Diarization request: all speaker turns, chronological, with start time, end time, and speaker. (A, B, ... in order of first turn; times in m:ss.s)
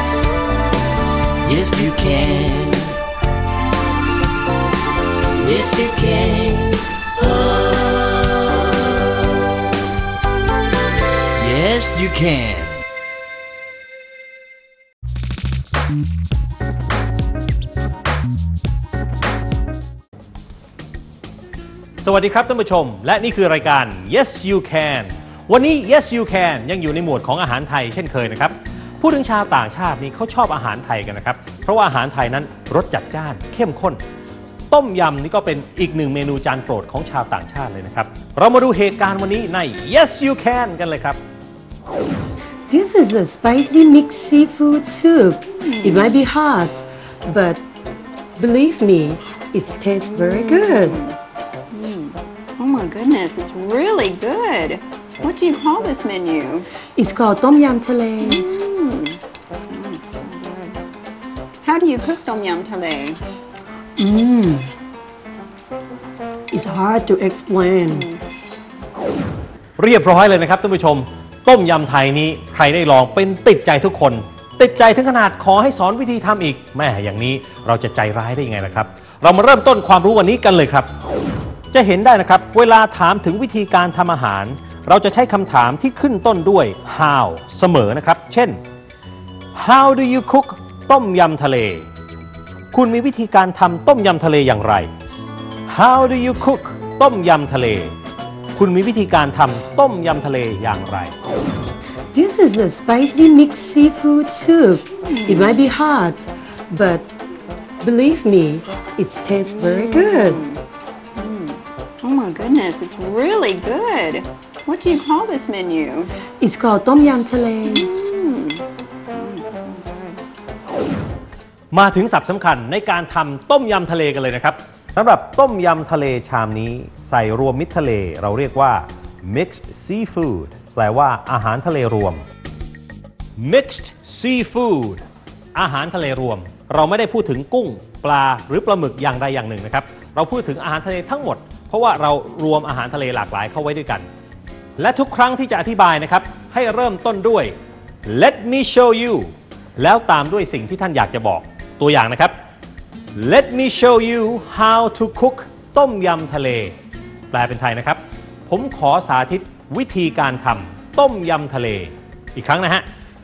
0:01.4-0:03.0 A
0:05.3-0:08.8 A
0:11.4-0:12.8 A
0:22.0-0:34.0 B
0:34.7-0:41.2 B
0:42.7-0:47.6 C
0:45.6-0:46.2 D
0:48.4-0:51.0 C
0:50.2-0:51.2 D
0:51.7-0:56.7 D
0:57.0-0:58.4 C
0:58.2-1:00.8 D
1:01.6-1:03.2 D
1:04.0-1:04.7 C
1:06.5-1:08.0 C
1:07.8-1:08.2 D
1:09.8-1:20.9 B
1:21.7-1:28.6 B
1:29.6-1:31.9 B
1:32.7-1:34.9 B
1:35.7-1:37.9 B
1:38.6-1:41.1 B
1:42.1-1:47.1 C
1:45.0-1:45.6 D
1:47.8-1:50.4 C
1:49.4-1:50.6 D
1:51.2-1:56.1 D
1:56.4-1:57.9 C
1:57.6-2:00.2 D
2:01.7-2:12.2 B
2:13.4-2:15.0 B
2:15.5-2:24.1 B
2:24.8-2:27.5 B
2:28.0-2:32.3 B
2:33.2-2:36.7 B
2:37.3-2:42.8 B